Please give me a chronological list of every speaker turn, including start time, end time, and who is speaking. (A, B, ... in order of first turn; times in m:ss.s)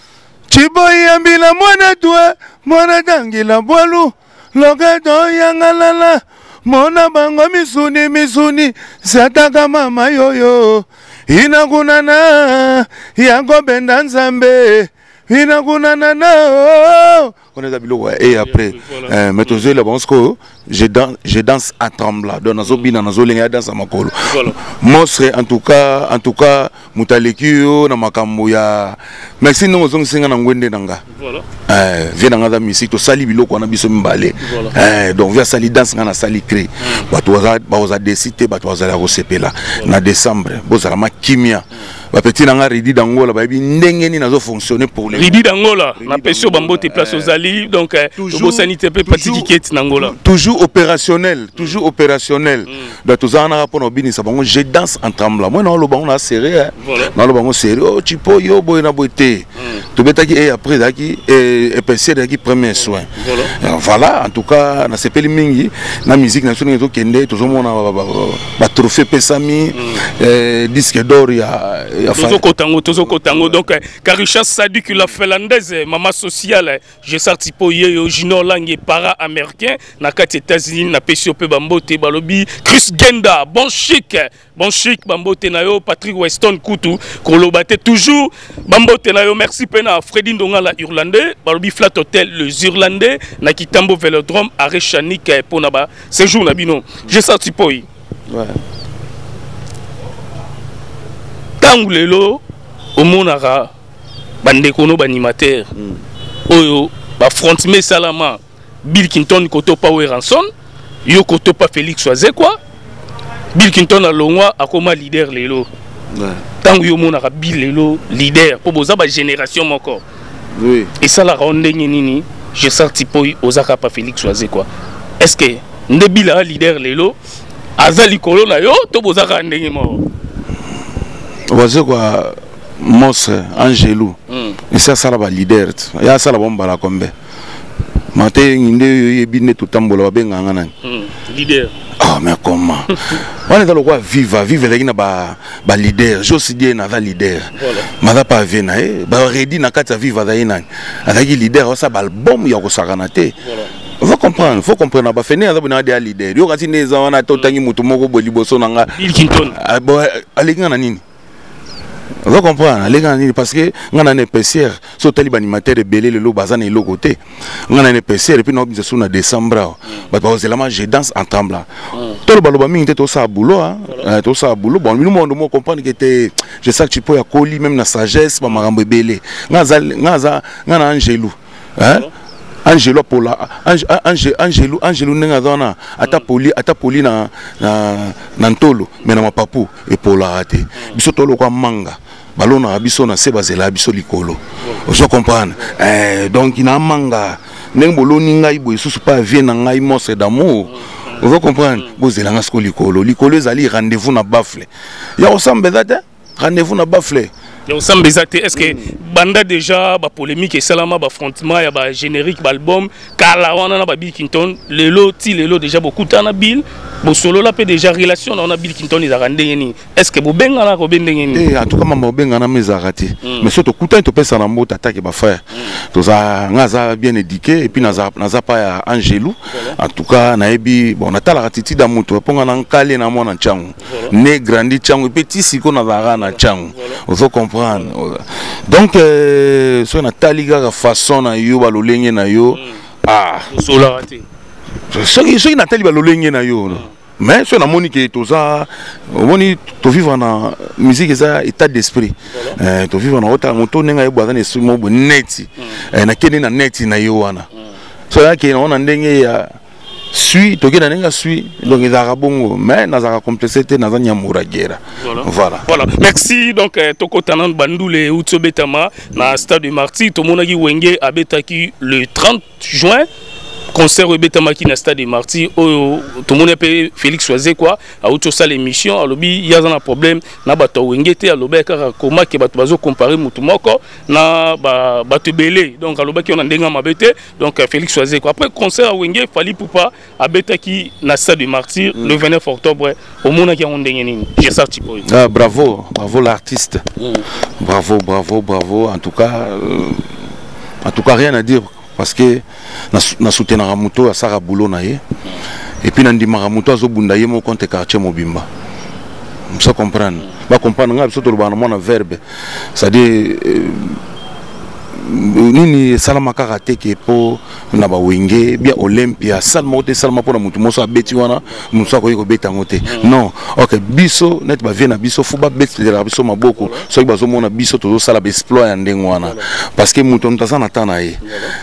0:00.5-0:31.0 A
0:18.4-0:19.6 B
0:24.2-0:24.6 B
0:31.1-0:31.5 B
0:31.7-0:45.4 A
0:34.4-0:34.7 B
0:45.1-0:50.2 B
0:46.0-0:47.3 A
0:48.2-1:12.4 A
0:52.7-0:52.9 B
0:56.8-0:57.1 B
0:59.6-0:59.8 B
1:02.8-1:03.5 B
1:12.1-1:37.9 B
1:13.0-1:13.6 A
1:38.3-1:38.6 A
1:41.6-1:42.4 B
1:43.0-1:43.7 B
1:44.4-1:45.7 B
1:46.5-1:50.5 B
1:51.1-1:52.6 B
1:53.5-1:55.7 B
1:56.1-1:56.4 A
1:56.6-2:00.0 B
2:00.6-2:00.9 A
2:01.0-2:04.7 B
2:05.2-2:07.2 B
2:07.8-2:10.1 B
2:11.5-2:14.2 A
2:14.3-2:14.6 B
2:14.7-2:17.1 A
2:18.1-2:20.7 A
2:20.8-2:21.7 B
2:22.0-2:33.4 A
2:27.6-2:27.9 B
2:33.4-2:33.7 B
2:34.0-2:41.0 A
2:39.0-2:39.6 B
2:42.2-2:51.7 A
2:52.2-3:02.1 A
3:02.6-3:27.3 A
3:20.7-3:21.2 B
3:27.7-3:41.4 B
3:28.6-3:28.8 A
3:41.3-4:03.5 A
3:49.5-3:49.8 B
3:53.8-3:54.1 B
3:56.2-3:57.0 B
4:02.5-4:02.8 B
4:03.5-4:04.2 B
4:04.9-4:17.5 A
4:12.3-4:12.6 B
4:18.1-4:19.6 A
4:20.1-4:25.6 A
4:25.0-4:33.1 B
4:33.7-4:55.1 B
4:55.0-4:56.9 A
4:57.6-5:00.0 A
5:00.8-5:05.0 A
5:05.8-5:08.5 A
5:09.5-5:12.2 A
5:12.8-5:14.0 A
5:15.0-5:31.2 A
5:26.6-5:26.8 B
5:31.3-5:31.5 B